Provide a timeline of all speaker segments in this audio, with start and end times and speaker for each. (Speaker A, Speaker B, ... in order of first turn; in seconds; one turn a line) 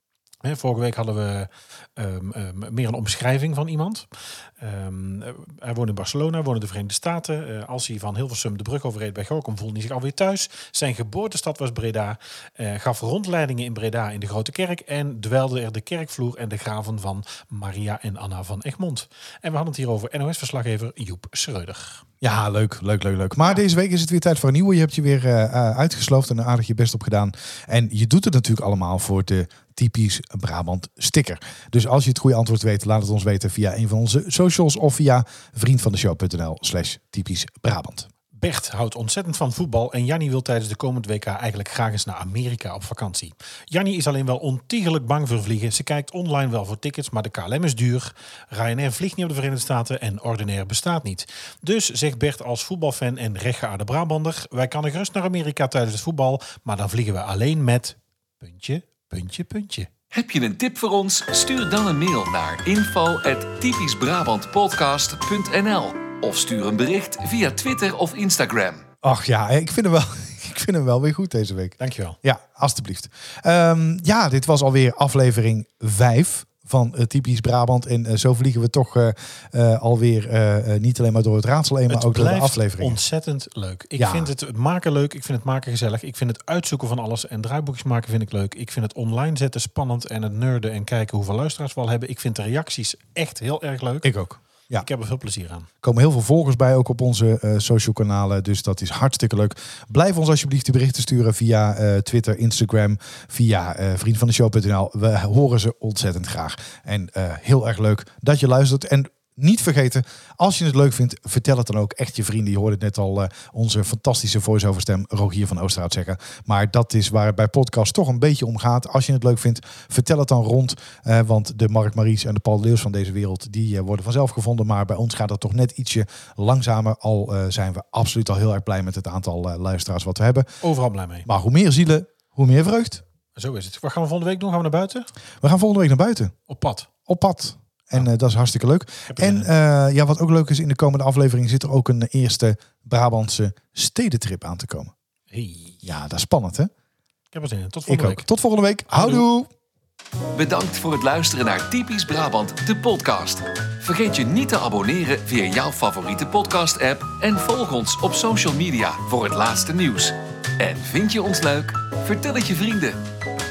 Speaker A: 0.4-22.0
Speaker B: 22.2-38.1
Speaker A: 38.3-59.9
Speaker C: 60.1-68.8
Speaker B: 69.0-83.0
Speaker A: 71.8-72.2
Speaker A: 81.9-94.1
Speaker B: 84.0-84.3
Speaker B: 94.0-94.9
Speaker A: 94.7-95.7
Speaker B: 95.8-130.5
Speaker A: 130.6-131.3
Speaker B: 131.2-133.0
Speaker A: 133.3-135.1
Speaker B: 135.4-136.3
Speaker A: 136.5-136.9
Speaker B: 137.1-144.9
Speaker A: 139.1-139.5
Speaker A: 145.3-145.8
Speaker B: 145.8-146.7
Speaker A: 147.3-148.3
Speaker B: 147.9-149.5
Speaker A: 148.9-149.2
Speaker C: 150.3-163.0